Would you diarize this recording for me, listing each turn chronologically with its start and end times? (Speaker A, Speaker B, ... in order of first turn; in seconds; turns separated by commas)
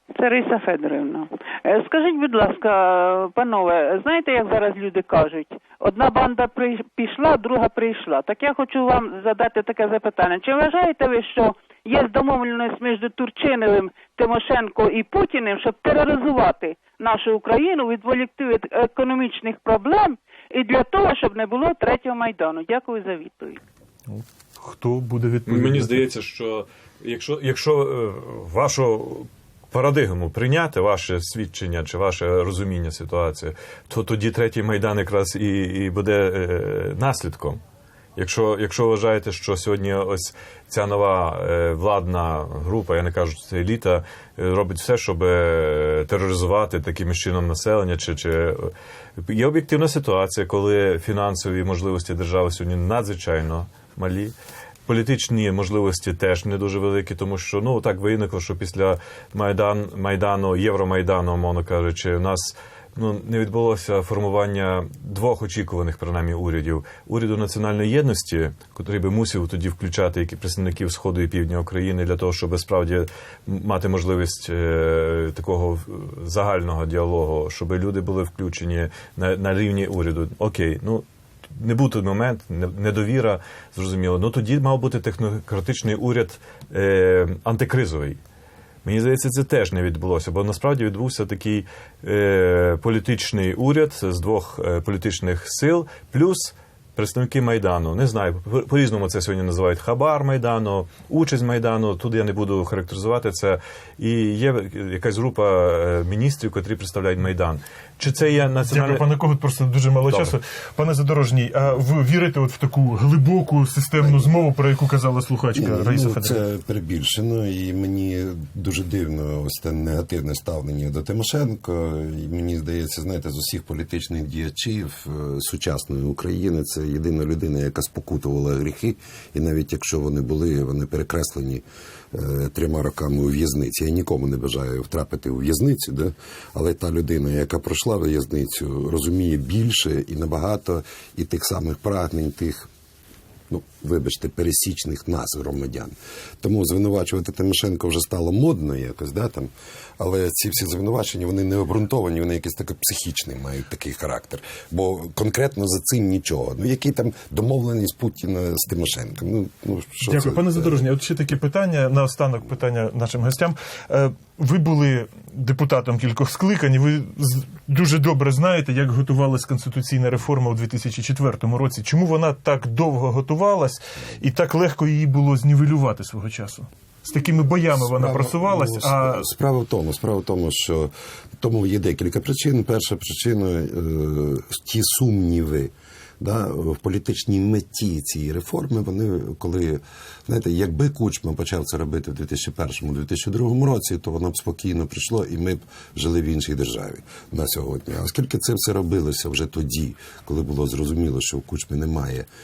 Speaker A: 0.1-23.6, Speaker B: 24.1-26.0, Speaker C: 25.5-37.6, Speaker C: 38.2-54.4, Speaker C: 54.9-88.2, Speaker C: 88.8-109.1, Speaker B: 108.7-116.4, Speaker C: 110.1-110.3, Speaker D: 114.0-114.3, Speaker D: 115.5-142.7, Speaker D: 143.5-160.8, Speaker B: 160.0-179.3, Speaker D: 177.7-202.3